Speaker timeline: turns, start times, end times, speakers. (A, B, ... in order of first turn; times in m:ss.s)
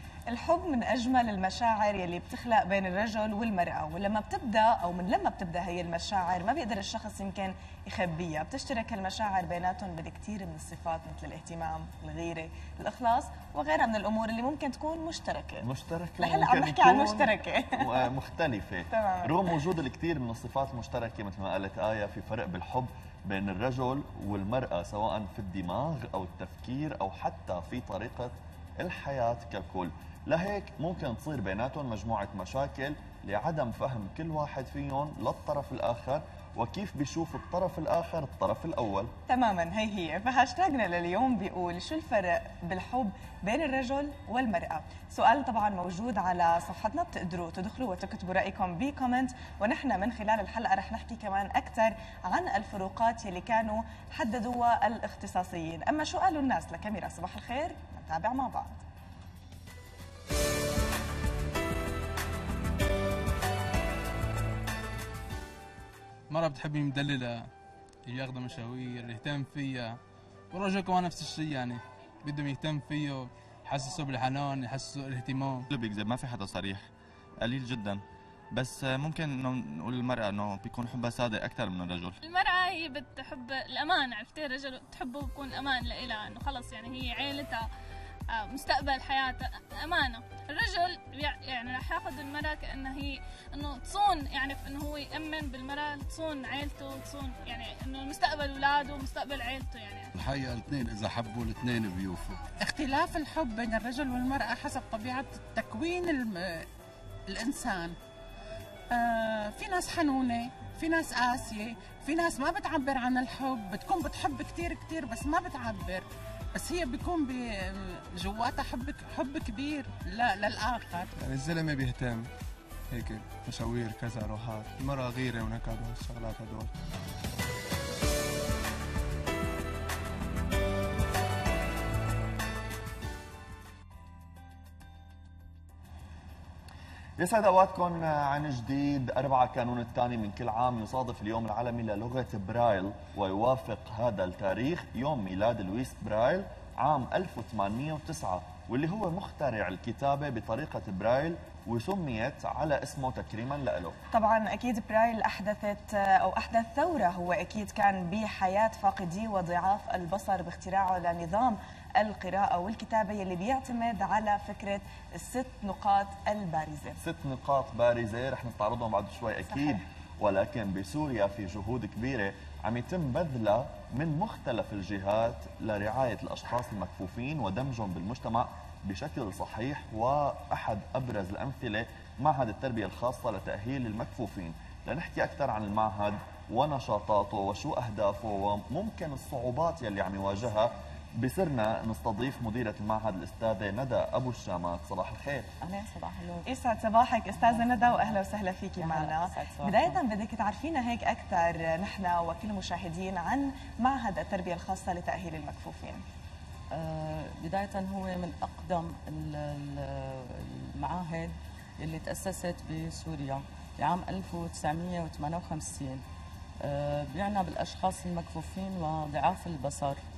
0:00.3-0:15.7 A
0:15.6-0:39.1 B
0:16.2-0:18.0 A
0:18.9-0:19.4 A
0:39.3-0:58.8 A
1:06.3-1:07.5 C
1:08.0-1:10.0 C
1:10.5-1:15.7 C
1:15.7-1:16.9 D
1:17.4-1:22.2 D
1:22.2-1:27.6 E
1:28.3-1:40.1 E
1:40.2-1:42.4 F
1:42.5-1:46.7 G
1:47.3-1:48.0 G
1:48.9-2:01.1 G
2:01.2-2:02.3 H
2:02.9-2:06.7 H
2:17.2-2:34.0 B
2:34.1-2:47.0 A
2:47.0-3:15.5 B
2:49.5-2:49.8 A
3:15.6-3:16.5 I
3:16.4-3:26.0 A
3:17.3-3:18.2 I
3:18.8-3:20.0 I
3:26.7-3:36.0 I
3:36.6-3:40.0 I